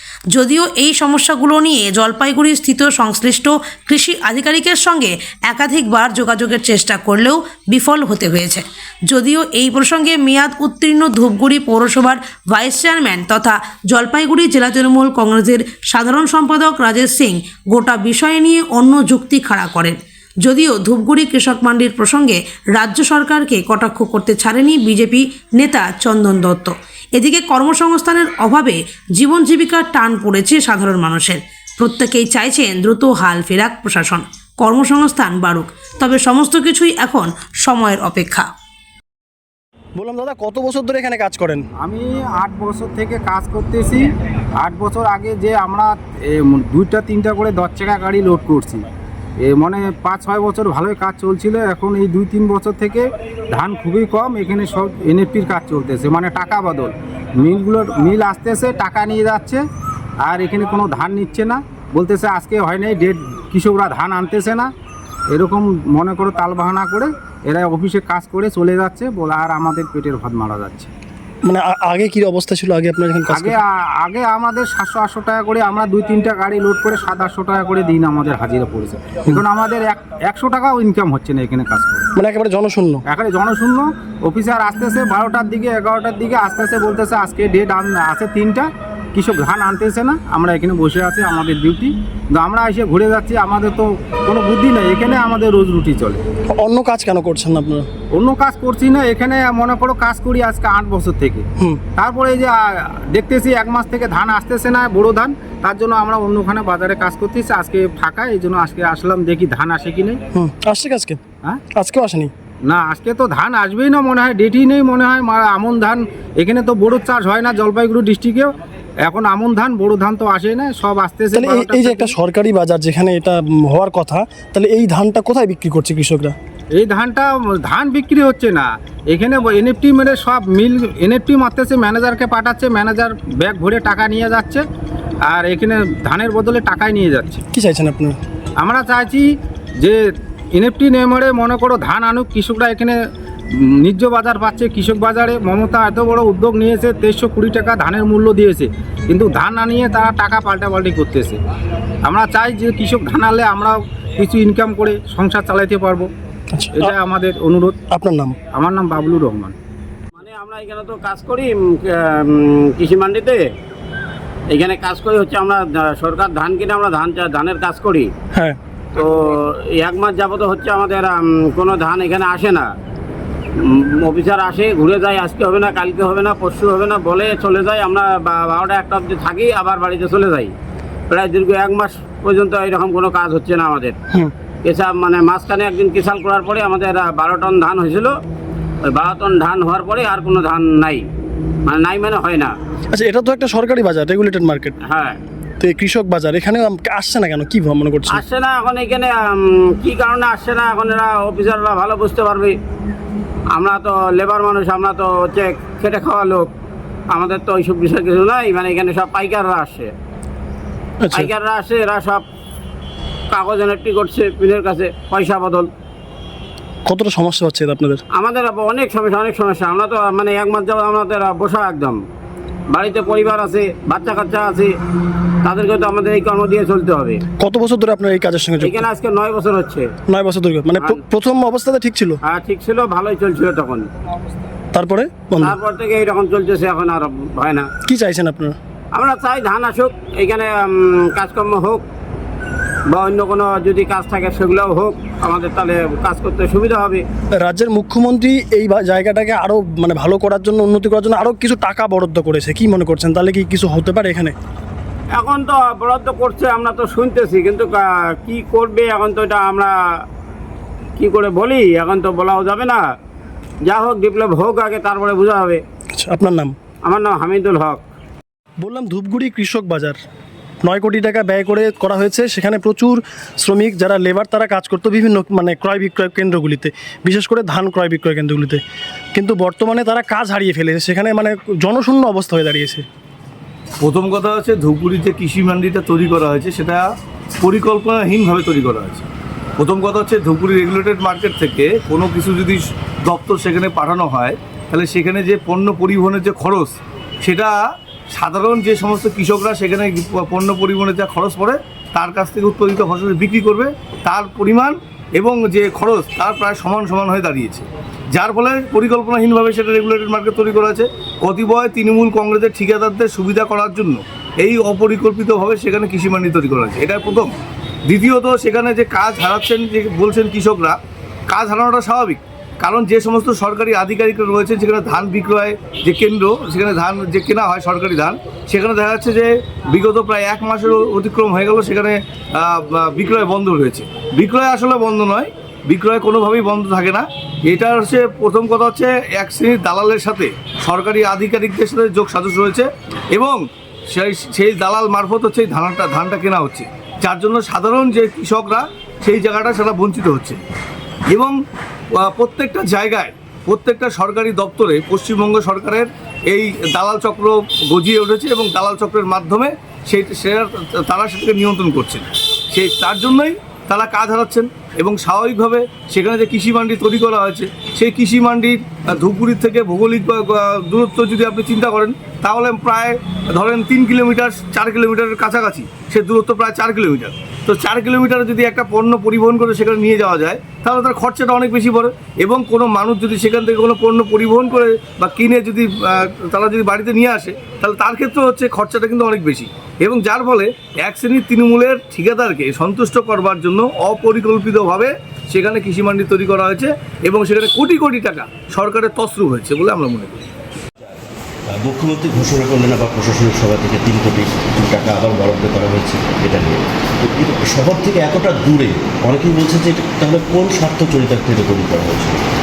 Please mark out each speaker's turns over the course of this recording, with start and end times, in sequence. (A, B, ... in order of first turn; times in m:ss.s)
0:00.3-0:38.5 A
0:40.0-0:41.6 B
0:41.8-0:48.8 C
0:49.4-0:59.6 C
1:00.2-1:04.7 C
1:05.3-1:10.9 C
1:11.4-1:13.6 B
1:13.3-1:22.1 C
1:22.1-1:23.0 B
1:23.1-1:36.2 C
1:36.5-1:37.9 B
1:38.1-1:50.2 C
1:50.3-1:51.2 B
1:51.7-1:52.3 B
1:52.7-1:58.5 C
1:59.0-2:02.1 C
2:01.3-2:06.3 B
2:06.7-2:14.6 C
2:15.2-2:17.4 C
2:17.5-2:18.2 B
2:18.6-2:19.3 C
2:20.5-2:23.0 C
2:23.5-2:31.4 C
2:32.0-2:36.1 C
2:36.5-2:36.9 B
2:36.8-2:37.8 C
2:37.9-2:38.4 B
2:38.5-2:39.5 C
2:40.2-2:43.4 D
2:44.5-2:48.1 D
2:48.3-2:48.6 B
2:48.9-2:52.7 D
2:53.6-3:00.5 D
3:01.1-3:04.0 D
3:04.6-3:08.1 D
3:08.9-3:11.0 D
3:11.6-3:12.5 D
3:12.9-3:14.7 B
3:14.9-3:15.2 D
3:15.6-3:18.2 B
3:18.1-3:22.5 D
3:23.5-3:26.5 D
3:27.1-3:29.9 D
3:31.0-3:31.3 B
3:31.1-3:32.2 D
3:33.3-3:35.7 D
3:36.8-3:38.0 B
3:38.1-3:42.0 D
3:42.7-3:44.7 D
3:45.4-3:47.2 D
3:47.4-3:48.8 B
3:48.6-3:49.9 D
3:50.1-3:52.2 B
3:52.3-3:53.8 D
3:54.7-3:55.6 B
3:55.4-3:57.7 D
3:57.8-3:58.6 B
3:58.9-4:01.8 D
4:02.9-4:07.0 D
4:07.4-4:14.3 B
4:15.1-4:19.7 D
4:21.0-4:22.8 D
4:23.6-4:25.6 D
4:26.0-4:26.5 B
4:26.8-4:27.8 D
4:28.6-4:30.0 B
4:30.6-4:38.6 B
4:39.1-4:42.8 B
4:43.8-4:46.8 E
4:47.4-4:49.1 E
4:49.6-4:57.6 E
4:58.1-5:17.3 E
5:17.9-5:20.8 E
5:21.3-5:50.4 E
5:51.1-5:51.3 E
5:51.9-6:40.3 E
6:40.8-6:52.2 F